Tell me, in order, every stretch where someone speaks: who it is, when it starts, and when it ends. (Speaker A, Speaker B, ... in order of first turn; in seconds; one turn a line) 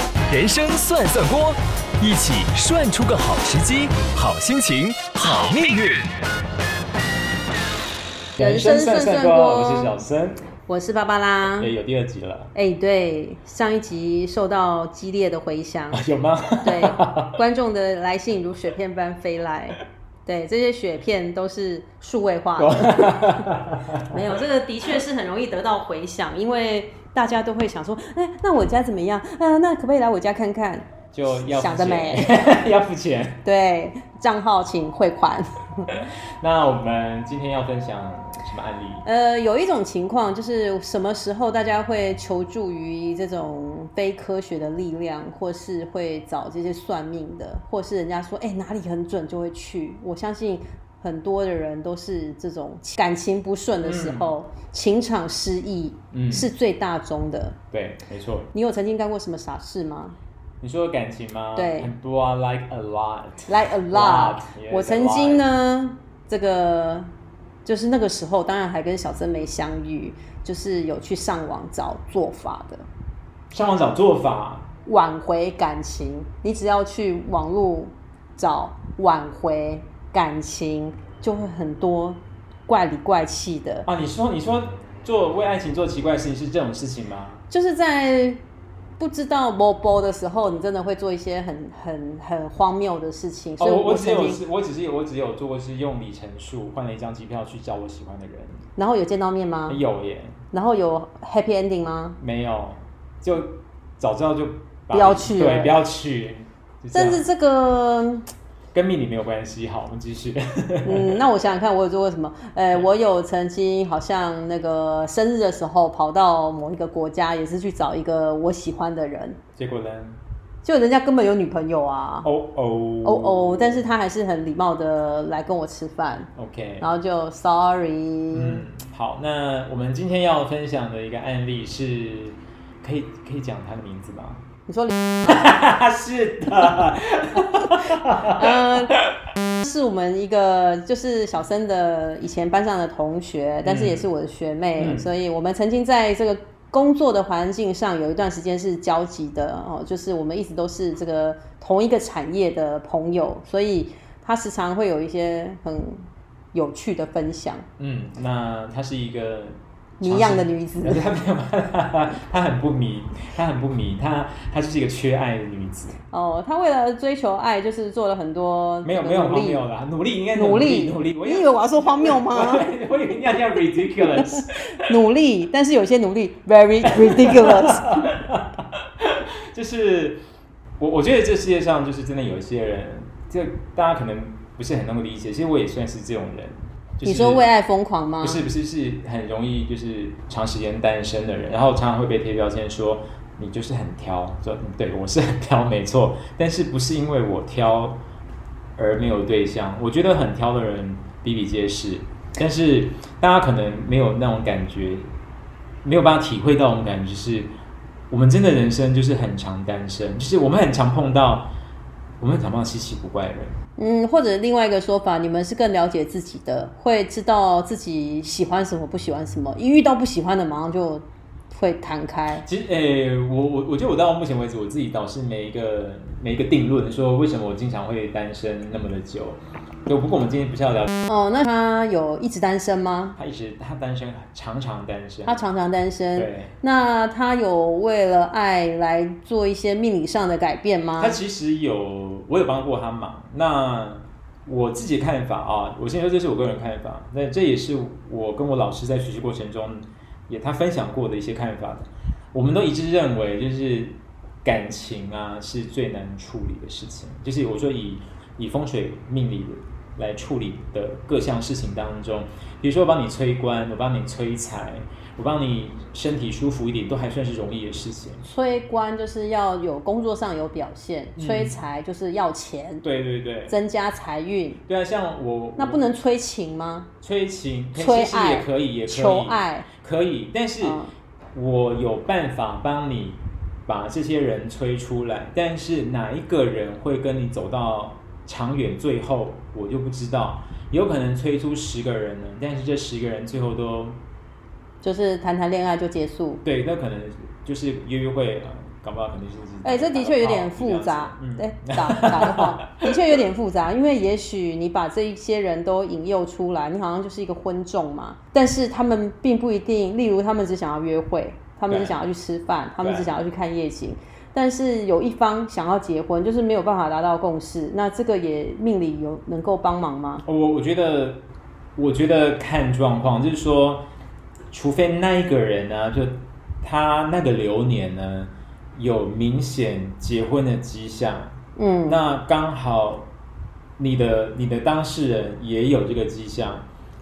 Speaker A: 0.3-6.1
Speaker B: 8.3-10.4
Speaker C: 8.4-9.9
Speaker C: 10.7-11.7
Speaker B: 11.6-12.5
Speaker C: 12.5-16.0
Speaker B: 15.9-17.4
Speaker C: 16.6-23.5
Speaker B: 22.6-24.2
Speaker C: 24.0-32.5
Speaker B: 31.1-33.4
Speaker C: 33.4-35.9
Speaker B: 35.9-39.0
Speaker C: 39.0-57.6
Speaker B: 53.8-54.3
Speaker B: 56.1-56.5
Speaker B: 57.7-58.5
Speaker C: 58.5-60.2
Speaker B: 60.6-65.5
Speaker C: 61.5-61.9
Speaker C: 63.5-67.1
Speaker C: 67.6-72.8
Speaker B: 73.5-74.7
Speaker C: 74.8-83.9
Speaker B: 83.8-87.4
Speaker C: 87.5-88.4
Speaker C: 89.0-94.4
Speaker B: 93.6-98.6
Speaker C: 98.8-99.8
Speaker B: 99.7-100.4
Speaker C: 100.5-102.2
Speaker B: 102.2-107.2
Speaker C: 104.9-105.8
Speaker C: 106.9-108.3
Speaker B: 108.7-111.2
Speaker C: 110.8-119.4
Speaker B: 119.6-120.2
Speaker C: 120.6-122.3
Speaker B: 122.2-123.8
Speaker C: 123.0-128.6
Speaker B: 126.3-126.9
Speaker B: 128.3-134.4
Speaker C: 134.7-135.4
Speaker B: 135.2-139.1
Speaker C: 137.9-139.0
Speaker C: 139.5-157.7
Speaker B: 143.6-144.1
Speaker B: 144.8-145.1
Speaker B: 157.8-166.0
Speaker C: 160.0-161.0
Speaker C: 166.1-169.7
Speaker B: 168.8-174.9
Speaker C: 170.3-172.7
Speaker C: 174.0-178.1
Speaker B: 176.8-180.2
Speaker B: 180.8-187.5
Speaker C: 187.0-188.4
Speaker B: 188.2-198.0
Speaker B: 198.8-205.1
Speaker B: 205.8-207.5
Speaker B: 208.1-211.5
Speaker B: 212.2-213.6
Speaker C: 213.8-222.4
Speaker B: 222.4-230.9
Speaker C: 231.1-233.2
Speaker B: 233.2-235.4
Speaker C: 235.2-241.2
Speaker B: 236.2-236.5
Speaker B: 241.0-268.2
Speaker C: 268.2-272.8
Speaker B: 271.2-271.6
Speaker B: 272.8-273.6
Speaker C: 273.5-274.6
Speaker B: 274.7-275.8
Speaker C: 275.6-276.9
Speaker B: 277.0-280.8
Speaker C: 277.8-279.7
Speaker C: 280.6-280.9
Speaker B: 281.3-294.0
Speaker C: 294.8-296.4
Speaker B: 296.4-302.9
Speaker C: 299.6-320.2
Speaker B: 311.7-311.9
Speaker B: 312.8-313.1
Speaker B: 320.2-321.2
Speaker B: 321.8-323.9
Speaker B: 324.5-333.1
Speaker C: 331.6-332.0
Speaker B: 333.8-336.6